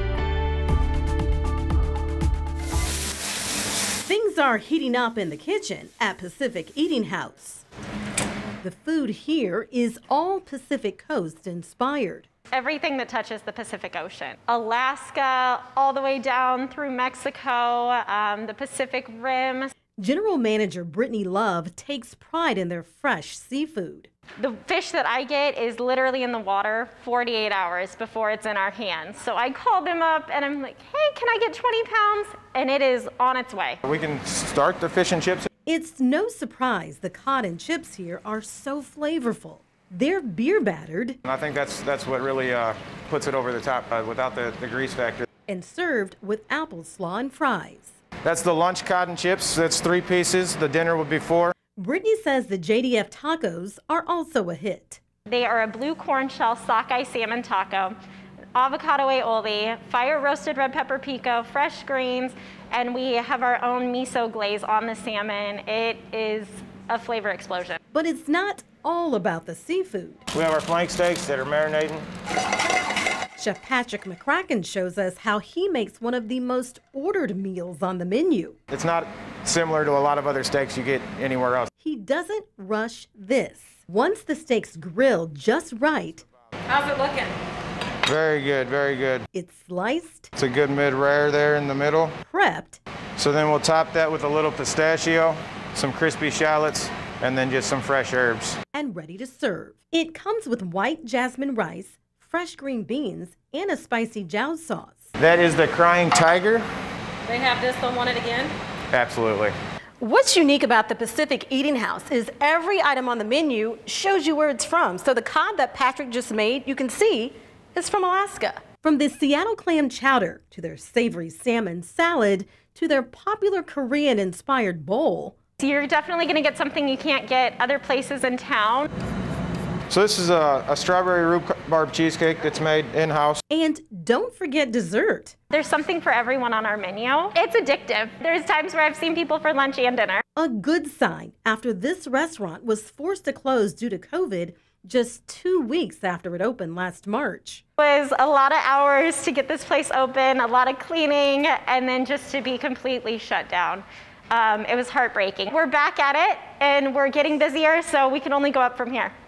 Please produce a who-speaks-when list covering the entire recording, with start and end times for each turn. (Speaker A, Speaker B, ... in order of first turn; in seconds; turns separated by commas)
Speaker A: 4.0-7.7, Speaker A: 8.6-12.3, Speaker B: 12.5-19.7, Speaker A: 20.0-24.1, Speaker B: 24.4-33.8, Speaker C: 33.9-35.5, Speaker A: 35.7-41.2, Speaker C: 41.2-45.3, Speaker A: 45.5-48.0, Speaker C: 48.2-51.5, Speaker A: 51.8-55.0, Speaker B: 55.3-58.0, Speaker B: 58.5-67.8, Speaker A: 67.9-70.2, Speaker C: 70.3-72.0, Speaker A: 73.4-78.6, Speaker C: 78.7-81.7, Speaker A: 81.8-87.3, Speaker C: 88.0-89.3, Speaker A: 89.3-90.3, Speaker C: 90.4-92.2, Speaker A: 92.2-92.8, Speaker C: 93.2-98.6, Speaker A: 98.7-105.1, Speaker C: 105.2-106.7, Speaker A: 107.2-108.5, Speaker C: 108.9-109.5, Speaker A: 110.0-125.4, Speaker B: 125.6-128.9, Speaker C: 129.9-133.4, Speaker A: 133.5-135.4, Speaker B: 135.5-140.2, Speaker A: 140.4-147.6, Speaker B: 147.8-159.1